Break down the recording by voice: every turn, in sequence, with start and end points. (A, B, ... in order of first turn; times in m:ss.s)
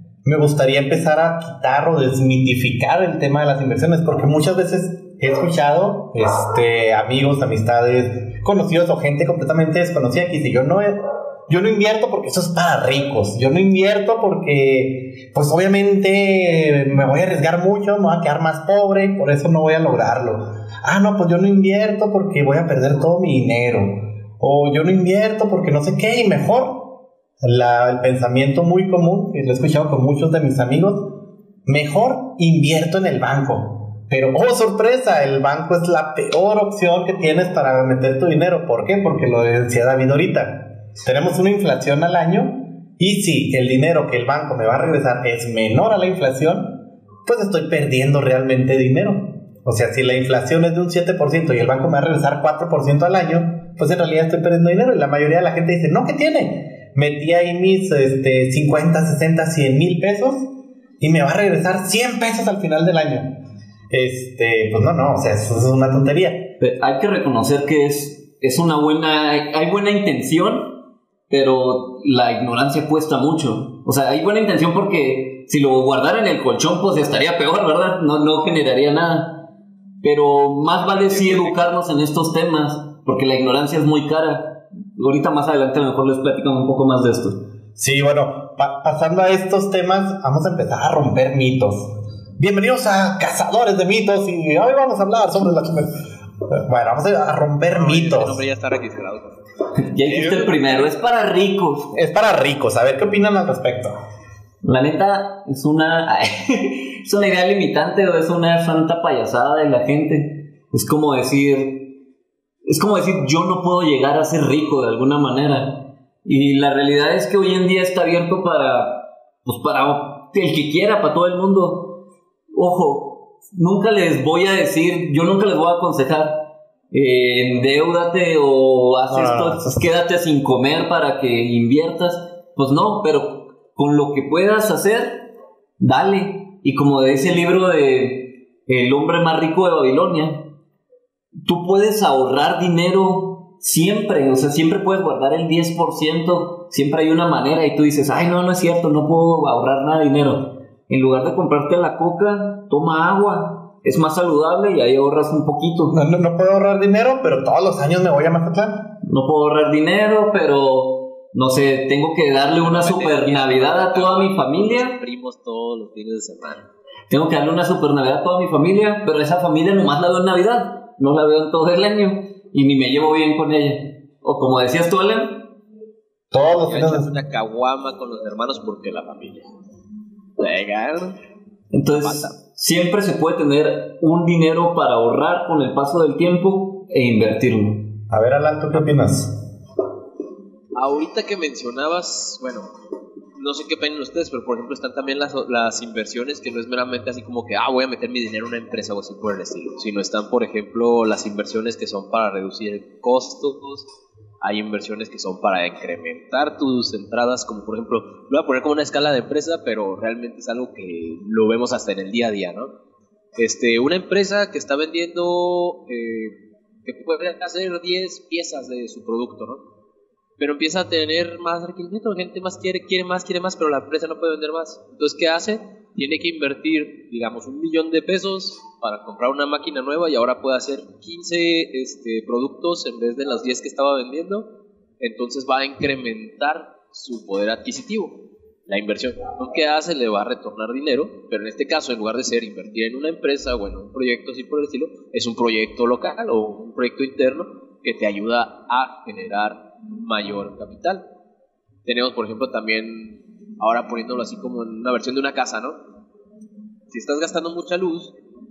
0:00.2-0:31.1 A
0:31.7-1:03.4 A
1:03.9-1:06.5 A
1:06.6-1:10.8 B
1:11.3-1:19.5 B
1:20.0-1:27.4 B
1:20.8-1:21.6 C
1:27.8-1:36.0 A
1:36.5-1:38.4 A
1:37.7-1:39.4 C
1:39.7-1:42.0 B
1:40.1-1:40.8 C
1:41.9-1:44.0 A
1:44.6-1:51.9 B
1:52.7-2:02.0 B
2:02.5-2:20.5 B
2:09.1-2:09.9 A
2:21.4-2:36.0 B
2:35.9-2:38.9 A
2:39.0-2:45.0 B
2:42.6-2:46.7 C
2:47.1-2:55.5 B
2:56.3-2:57.1 A
2:56.4-2:59.5 C
3:00.4-3:01.2 C
3:01.7-3:07.9 B
3:02.0-3:02.4 C
3:08.1-3:09.4 A
3:10.8-3:12.7 C
3:13.4-3:23.9 C
3:24.4-3:32.7 C
3:33.4-3:39.6 C
3:40.4-3:54.5 C
3:55.0-4:11.0 C
4:11.8-4:15.8 C
4:16.9-4:18.2 C